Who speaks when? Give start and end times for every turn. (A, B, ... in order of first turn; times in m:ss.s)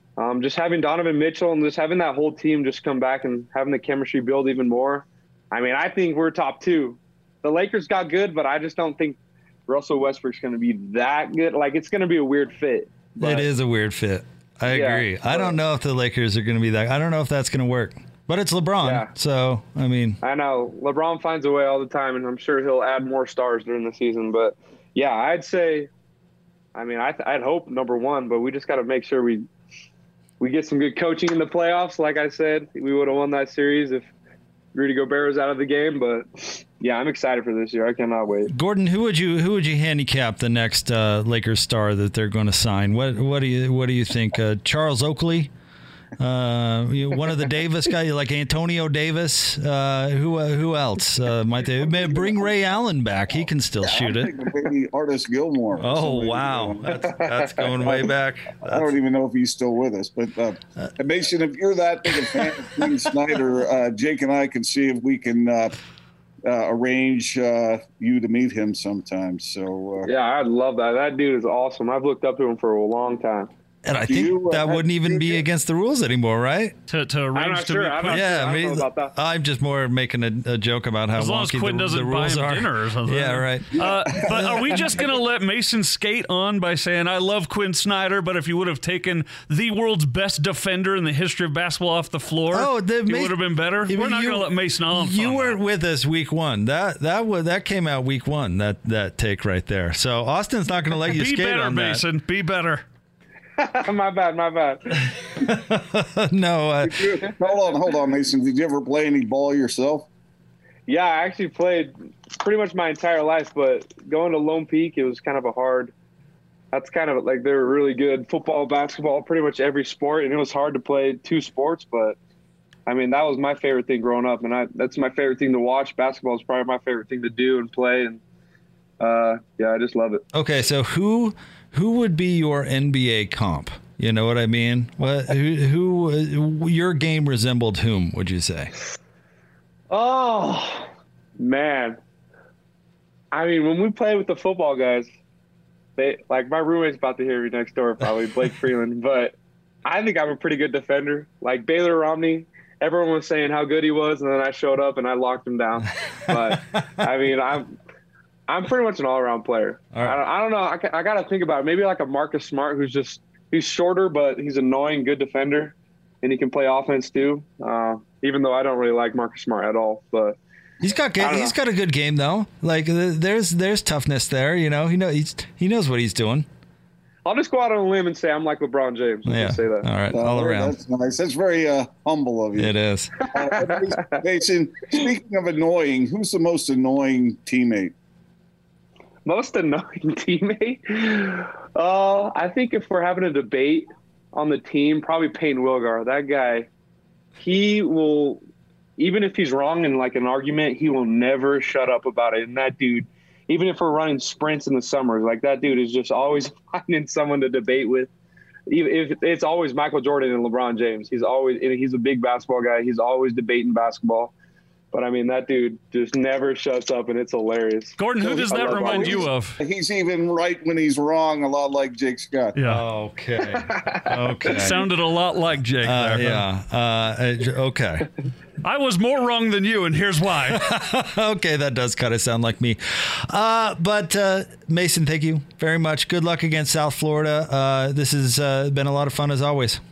0:00.2-0:13.5 A
0:13.2-0:20.2 B
0:14.7-0:15.6 A
0:18.8-0:19.1 A
0:20.2-0:25.9 A
0:26.8-0:29.5 A
0:30.4-0:34.1 A
0:34.7-0:38.5 A
0:38.5-0:45.5 B
0:46.2-0:54.3 B
0:54.0-0:56.9 C
0:55.8-0:58.9 B
0:57.1-0:57.9 A
0:58.6-1:05.8 C
1:02.4-1:02.9 B
1:06.5-1:10.1 C
1:10.0-1:13.5 A
1:13.8-1:16.8 B
1:14.1-1:15.4 C
1:16.9-1:18.3 D
1:17.4-1:19.1 A
1:18.1-1:24.7 B
1:21.1-1:35.6 D
1:23.9-1:24.1 C
1:32.5-1:42.0 B
1:41.0-1:42.8 D
1:43.6-1:45.1 A
1:45.4-1:47.0 B
1:46.8-1:50.1 C
1:47.2-1:47.7 A
1:50.9-1:55.9 A
1:56.7-2:02.2 A
2:02.9-2:08.2 A
2:09.0-2:10.2 A
2:10.3-2:18.7 B
2:19.9-2:22.0 A
2:23.3-2:25.1 A
2:26.0-2:37.7 A
2:38.5-2:50.4 A
2:50.8-2:56.5 B
2:51.2-2:51.6 A
2:57.2-2:59.9 A
2:59.3-3:00.8 B
3:00.1-3:02.7 C
3:02.6-3:03.2 B
3:03.2-3:04.2 A
3:03.3-3:07.9 C
3:09.2-3:16.7 A
3:17.4-3:18.4 A
3:19.0-3:28.1 A
3:28.7-3:34.3 A
3:34.9-3:39.3 A
3:38.0-3:39.6 D
3:38.2-3:42.6 C
3:42.6-3:42.8 D
3:42.6-3:44.8 B
3:43.7-3:44.7 A
3:44.5-3:46.5 D
3:45.8-3:48.1 B
3:48.6-3:50.6 D
3:50.5-3:52.8 B
3:53.3-3:59.8 B